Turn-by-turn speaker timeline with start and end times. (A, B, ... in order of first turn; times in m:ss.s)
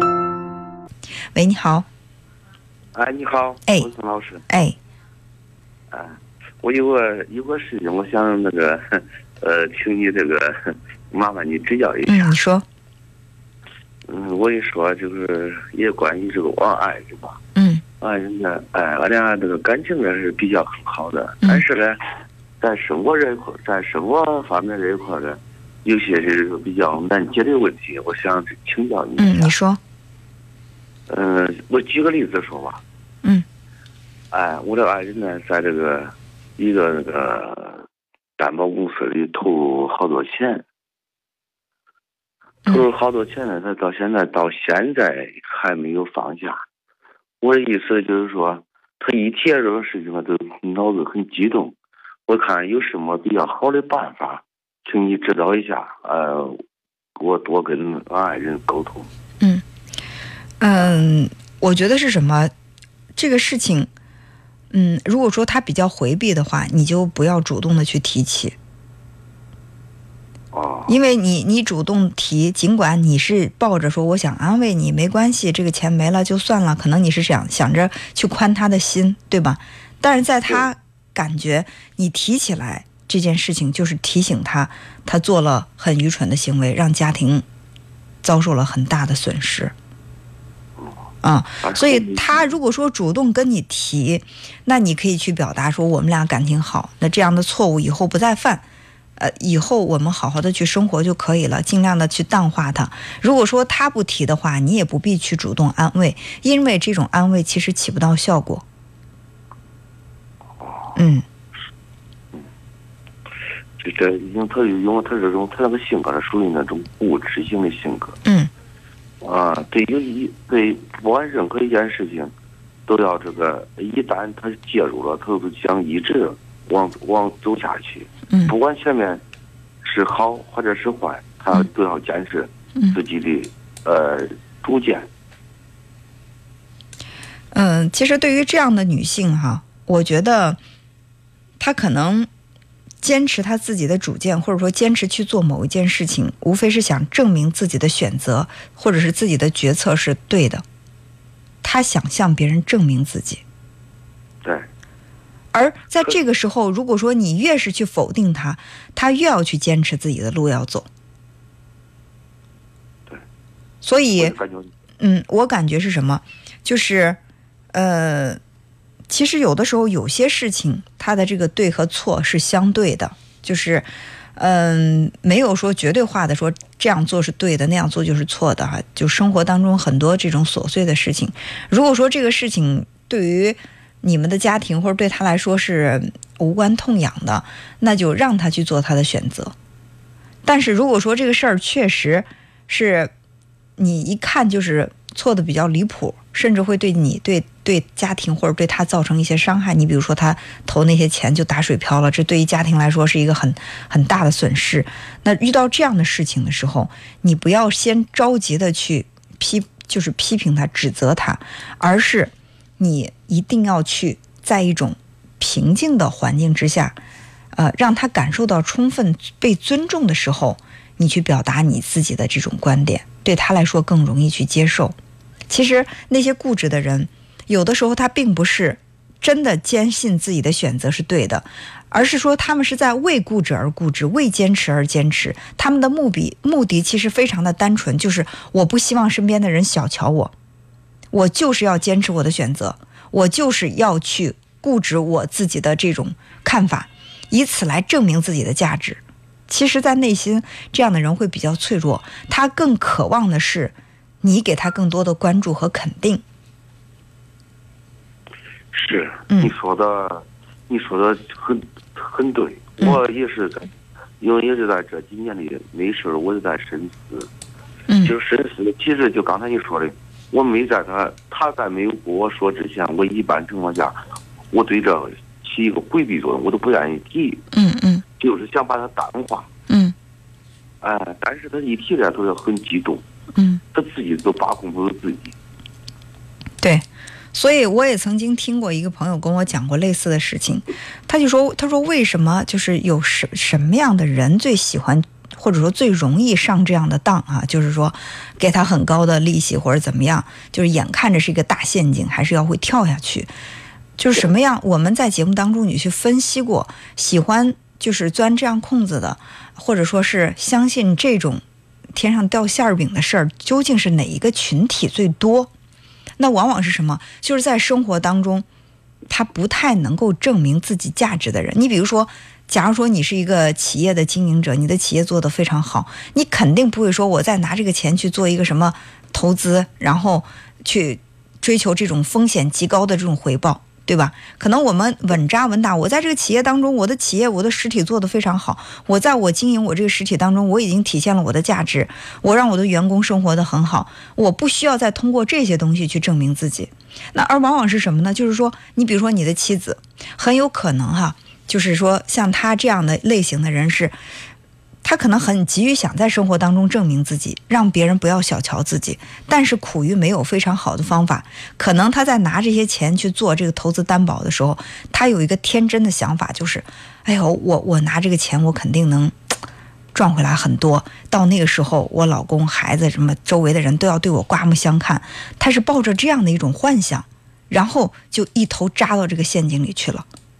0:01.3-0:01.8 A
0:02.9-0:04.4 B
0:04.5-0:04.8 A
0:05.9-0:12.3 B
0:12.0-0:12.6 A
0:14.0-0:17.4 B
0:17.6-0:17.8 A
0:18.0-0:22.0 B
0:22.6-0:29.5 B
0:29.2-0:29.8 A
0:31.1-0:32.8 B
0:34.3-0:37.8 B
0:38.4-0:40.6 B
0:42.6-0:46.6 B
0:47.4-0:51.8 B
0:52.3-0:56.6 B
0:57.2-0:59.1 B
1:00.6-1:02.5 A
1:03.1-1:03.9 A
1:04.7-1:08.6 A
1:10.5-1:10.9 B
1:10.9-1:27.4 A
1:28.2-1:29.7 A
1:30.8-1:31.1 B
1:31.2-1:38.6 A
1:31.6-1:32.5 B
1:39.2-1:48.6 A
1:50.6-1:51.0 B
1:51.0-1:51.2 A
1:53.8-1:58.2 B
1:58.2-1:58.5 A
1:59.2-2:02.3 B
2:02.9-2:09.2 B
2:09.8-2:15.1 B
2:17.5-2:20.6 A
2:21.6-2:22.3 A
2:23.0-2:30.6 A
2:31.6-2:33.4 A
2:34.4-2:34.7 B
2:35.5-2:40.9 A
2:43.8-2:44.4 A
2:44.1-2:44.7 B
2:45.0-2:47.2 A
2:47.7-2:48.4 A
2:49.1-3:09.5 A
3:10.4-3:13.1 A
3:13.8-3:37.0 A
3:37.5-3:45.0 A
3:45.5-4:00.3 A
4:01.1-4:16.2 A
4:18.7-4:27.3 B
4:19.3-4:19.6 A
4:27.9-4:28.1 A
4:28.0-4:34.0 B
4:34.5-4:37.4 B
4:37.5-4:38.0 A
4:38.2-4:39.5 B
4:39.7-4:39.9 A
4:40.8-4:43.0 B
4:43.4-4:43.6 A
4:43.7-4:45.3 B
4:46.6-5:03.3 A
5:04.0-5:15.5 A
5:16.2-5:18.4 A
5:19.1-5:53.9 A
5:54.8-6:09.1 A
6:09.9-6:20.0 A